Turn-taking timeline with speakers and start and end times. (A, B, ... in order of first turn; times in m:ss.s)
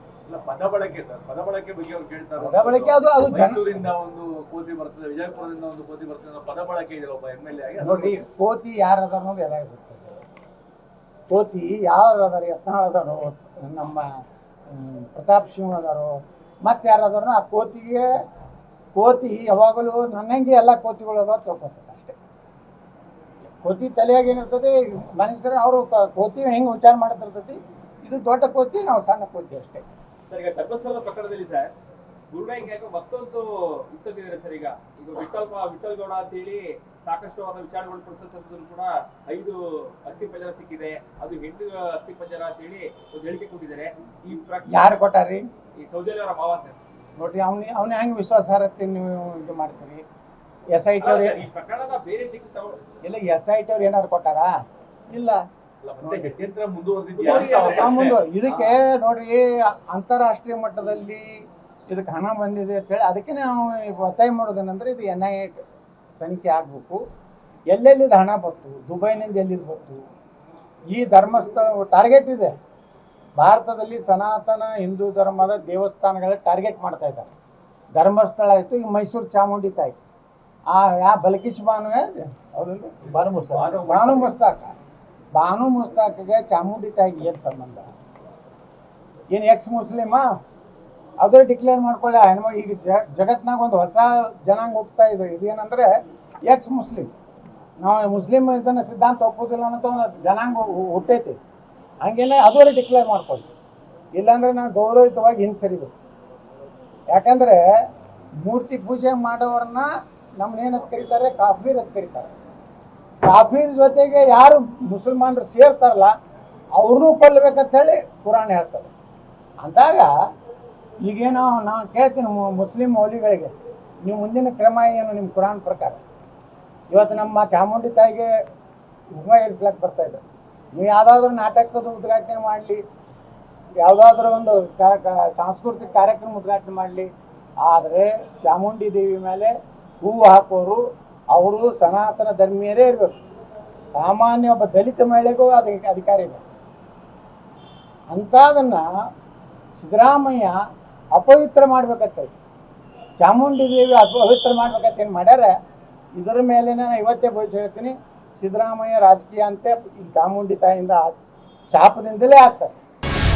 0:00.3-0:08.3 A
0:02.4-0:03.9 B
0:07.8-0:10.2 B
0:11.3-0:14.0 B
0:14.7-0:18.1 B
0:19.0-0:22.2 B
0:23.6-0:29.8 B
0:30.3-0:31.7 C
0:32.3-0:45.0 C
0:44.7-0:45.4 B
0:45.8-0:46.8 C
0:47.2-0:50.0 B
0:50.7-0:51.5 B
0:51.0-0:52.8 C
0:53.0-0:54.5 B
0:55.1-0:55.4 B
0:55.8-0:58.7 A
0:56.0-0:56.3 B
0:57.2-0:58.1 C
0:57.2-1:05.6 B
1:06.2-1:07.0 B
1:07.7-1:10.0 B
1:10.9-1:12.5 B
1:13.4-1:17.3 B
1:18.0-1:20.0 B
1:20.7-1:24.7 B
1:23.0-1:24.4 A
1:25.4-1:27.9 B
1:29.3-1:30.2 B
1:31.2-1:37.1 B
1:37.8-1:41.4 B
1:42.0-1:43.5 B
1:44.2-1:45.9 B
1:47.1-1:47.6 B
1:48.4-1:52.3 B
1:53.2-1:56.1 B
1:56.8-1:58.9 B
1:59.6-2:00.1 B
2:01.0-2:03.5 B
2:04.0-2:06.0 B
2:06.9-2:08.3 B
2:09.1-2:10.2 B
2:10.8-2:12.8 B
2:13.8-2:17.1 B
2:17.6-2:20.8 B
2:21.3-2:23.2 B
2:24.0-2:26.4 B
2:28.1-2:28.8 B
2:29.8-2:30.6 B
2:31.2-2:32.3 B
2:33.2-2:35.5 B
2:36.2-2:41.2 B
2:41.7-2:42.8 B